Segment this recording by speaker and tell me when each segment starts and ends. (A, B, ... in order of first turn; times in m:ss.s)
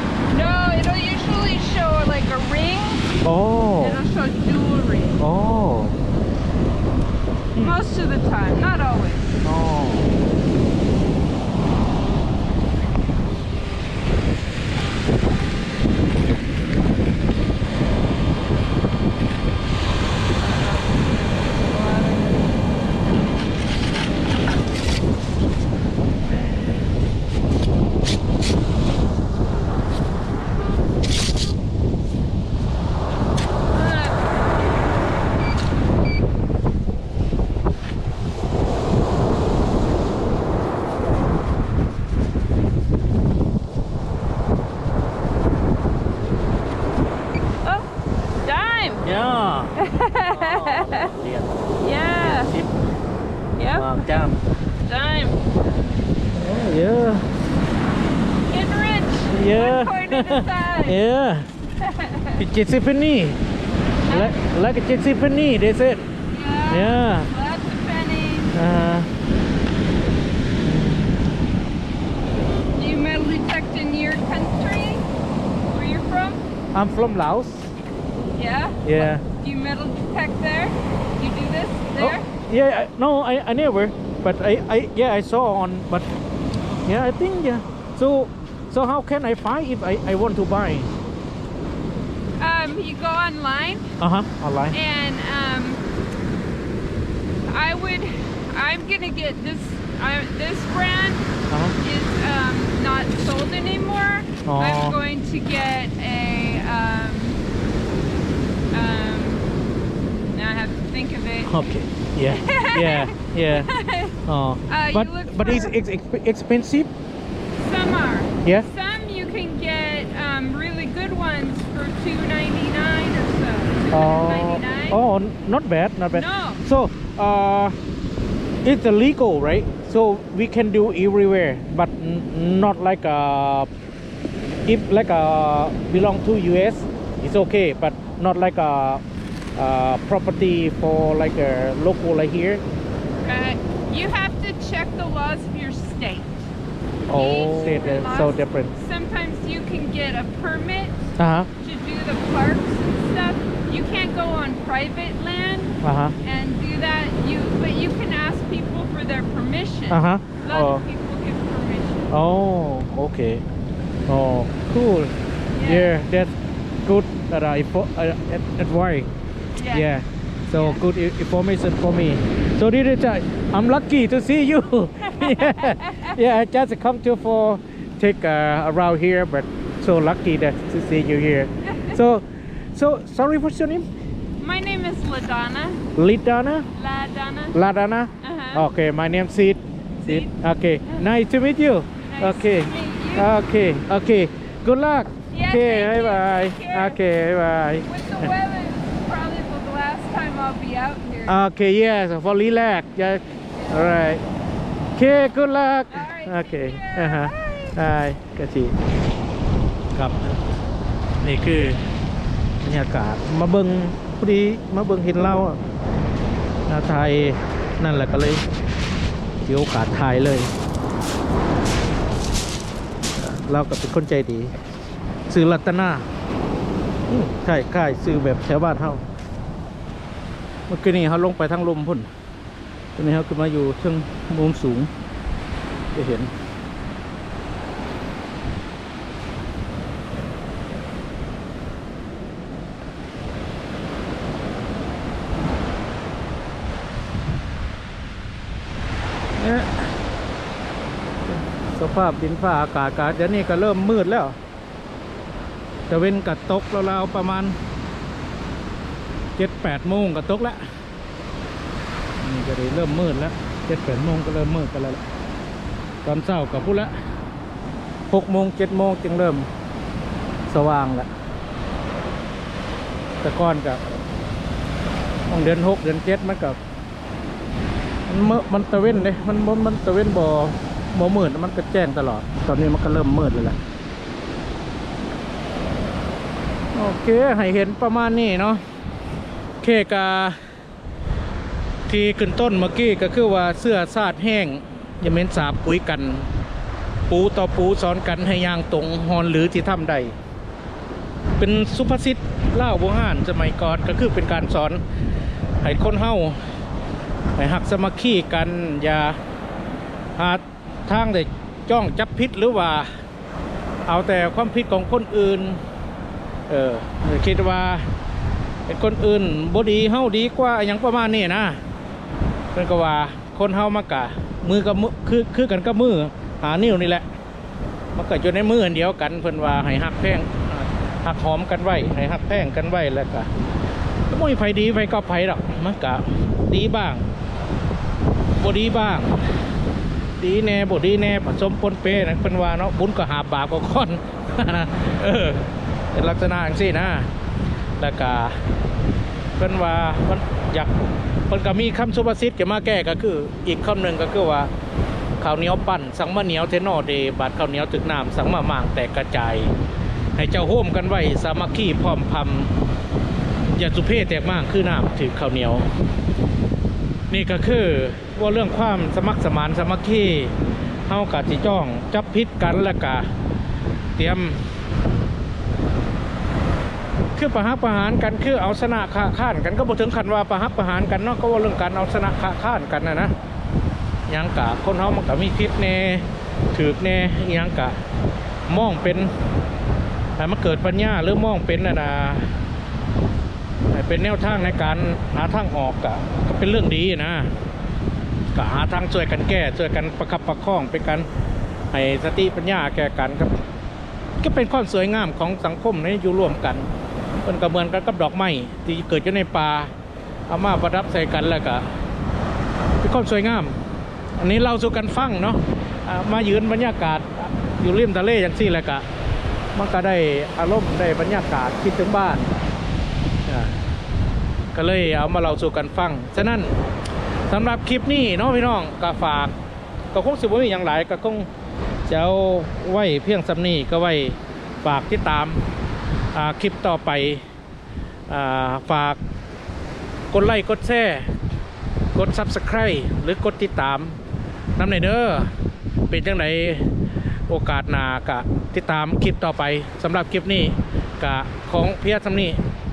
0:00.3-0:03.2 A
0:03.2-0:04.0 B
0:03.8-0:05.2 A
0:05.2-0:06.0 B
0:07.6-0:09.4 A
0:09.4-0:10.1 B
0:20.4-0:22.6 A
0:33.7-0:34.3 A
0:47.6-0:47.9 A
0:48.4-0:49.1 A
0:49.0-0:51.6 B
0:49.8-0:51.1 A
0:51.8-0:52.5 A
0:52.2-0:52.8 B
0:53.6-0:54.1 A
0:53.7-0:54.4 B
0:54.8-0:55.4 A
0:56.3-0:57.3 B
0:58.4-1:01.0 A
0:59.3-1:01.5 B
1:01.8-1:02.4 A
1:02.4-1:03.4 B
1:04.1-1:04.4 A
1:04.1-1:06.1 B
1:06.3-1:08.6 A
1:06.7-1:07.3 B
1:08.5-1:09.1 B
1:10.6-1:11.2 B
1:12.7-1:15.1 A
1:15.7-1:16.4 A
1:16.7-1:17.7 B
1:18.3-1:22.3 A
1:18.8-1:19.2 B
1:22.0-1:26.1 B
1:26.8-1:30.9 B
1:32.4-1:33.9 A
1:34.0-1:34.8 B
1:34.7-1:35.8 A
1:37.5-1:41.3 A
1:41.5-1:41.8 B
1:41.8-1:47.4 A
1:44.5-1:45.0 B
1:48.7-1:49.5 A
1:50.3-1:51.5 A
1:51.5-1:53.7 B
1:52.3-1:54.2 A
1:54.3-1:56.9 B
1:54.7-1:55.8 A
1:57.6-2:05.0 A
2:03.9-2:07.8 B
2:06.1-2:06.6 A
2:08.6-2:13.7 B
2:14.7-2:19.0 B
2:19.6-2:22.6 B
2:23.2-2:26.5 A
2:27.1-2:28.7 B
2:27.1-2:42.1 A
2:31.2-2:31.5 B
2:35.8-2:36.2 B
2:39.9-2:40.8 B
2:42.1-2:43.4 B
2:44.1-2:46.3 B
2:45.5-2:45.9 A
2:46.8-2:49.1 B
2:49.6-2:49.9 A
2:49.7-3:03.9 B
2:50.5-2:50.8 A
2:55.2-2:56.2 A
3:01.6-3:02.0 A
3:04.4-3:05.9 A
3:06.0-3:06.7 B
3:06.8-3:07.6 A
3:07.5-3:18.3 B
3:08.2-3:08.7 A
3:10.0-3:10.3 A
3:12.0-3:13.3 A
3:15.3-3:17.0 A
3:17.9-3:21.4 A
3:21.3-3:24.2 B
3:23.6-3:24.0 A
3:25.0-3:28.8 B
3:25.9-3:27.8 A
3:30.0-3:30.3 B
3:31.2-3:31.9 B
3:32.6-3:35.6 B
3:36.7-3:38.4 B
3:39.4-3:40.5 B
3:43.2-3:44.5 B
3:45.3-3:46.0 B
3:47.1-3:49.0 B
3:50.7-3:52.1 B
3:53.0-3:54.9 B
3:56.0-3:56.3 B
4:09.4-4:10.0 B
4:11.3-4:14.4 B
4:15.9-4:17.6 B
4:19.4-4:20.6 B
4:22.2-4:25.0 B
4:26.0-4:26.9 B
4:28.1-4:29.5 B
4:30.5-4:31.1 B
4:33.2-4:33.8 B
4:35.3-4:36.6 B
4:38.1-4:43.6 B
4:46.7-4:48.6 B
4:49.6-4:50.4 B
4:51.9-4:56.3 B
4:57.1-5:00.2 B
5:01.4-5:04.8 B
5:05.6-5:06.4 B
5:07.4-5:09.2 B
5:10.2-5:12.9 B
5:13.9-5:15.6 B
5:16.5-5:17.9 B
5:18.7-5:21.6 B
5:22.5-5:27.1 B
5:28.0-5:33.3 B
5:34.1-5:37.1 B
5:38.4-5:39.2 B
5:40.2-5:47.1 B
5:47.8-5:48.4 B
5:49.4-5:54.5 B
5:55.2-5:59.5 B
6:00.2-6:02.5 B
6:03.5-6:05.7 B
6:07.1-6:10.4 B
6:10.9-6:13.1 B
6:14.0-6:14.4 B
6:17.2-6:23.1 B
6:24.1-6:27.8 B
6:28.5-6:29.1 B
6:30.2-6:32.4 B
6:33.7-6:37.3 B
6:38.4-6:41.1 B
6:41.7-6:43.4 B
6:44.2-6:46.7 B
6:47.2-6:49.7 B
6:50.3-6:51.7 B
6:52.8-6:53.6 B
6:54.2-6:58.9 B
6:59.6-7:02.3 B
7:03.3-7:03.6 B
7:04.5-7:06.6 B
7:07.3-7:09.3 B
7:09.9-7:11.3 B
7:11.9-7:15.4 B
7:16.1-7:17.2 B
7:18.1-7:19.0 B
7:20.1-7:21.1 B
7:22.0-7:24.0 B
7:24.6-7:25.3 B
7:25.9-7:26.7 B
7:27.3-7:32.4 B